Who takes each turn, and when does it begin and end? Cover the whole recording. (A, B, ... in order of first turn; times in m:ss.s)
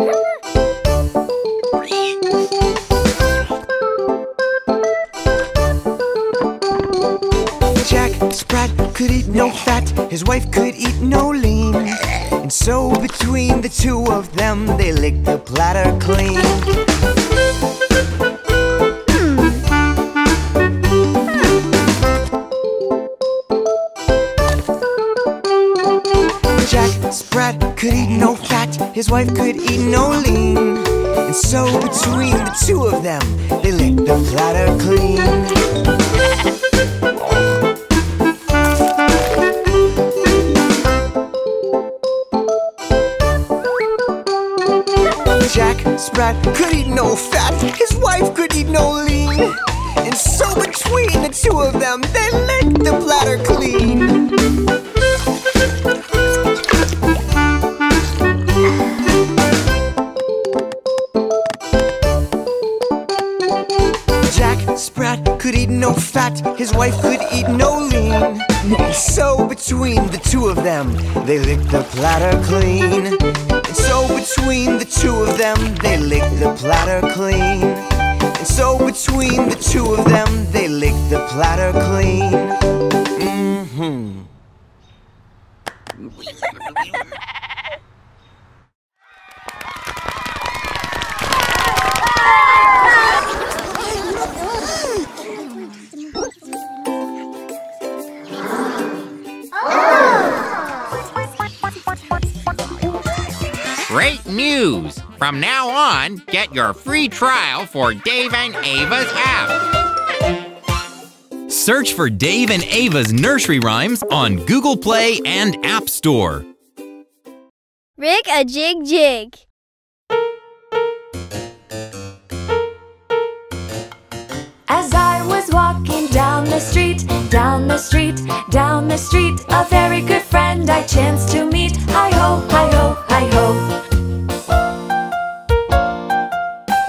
0:07.7-0:16.7 A
0:19.1-0:19.6 B
0:26.6-0:35.6 A
0:45.4-0:54.2 A
1:04.2-1:22.6 A
1:23.2-1:24.3 A
1:43.9-1:49.6 C
1:51.5-1:56.4 D
1:58.0-1:59.4 B
2:04.7-2:13.7 E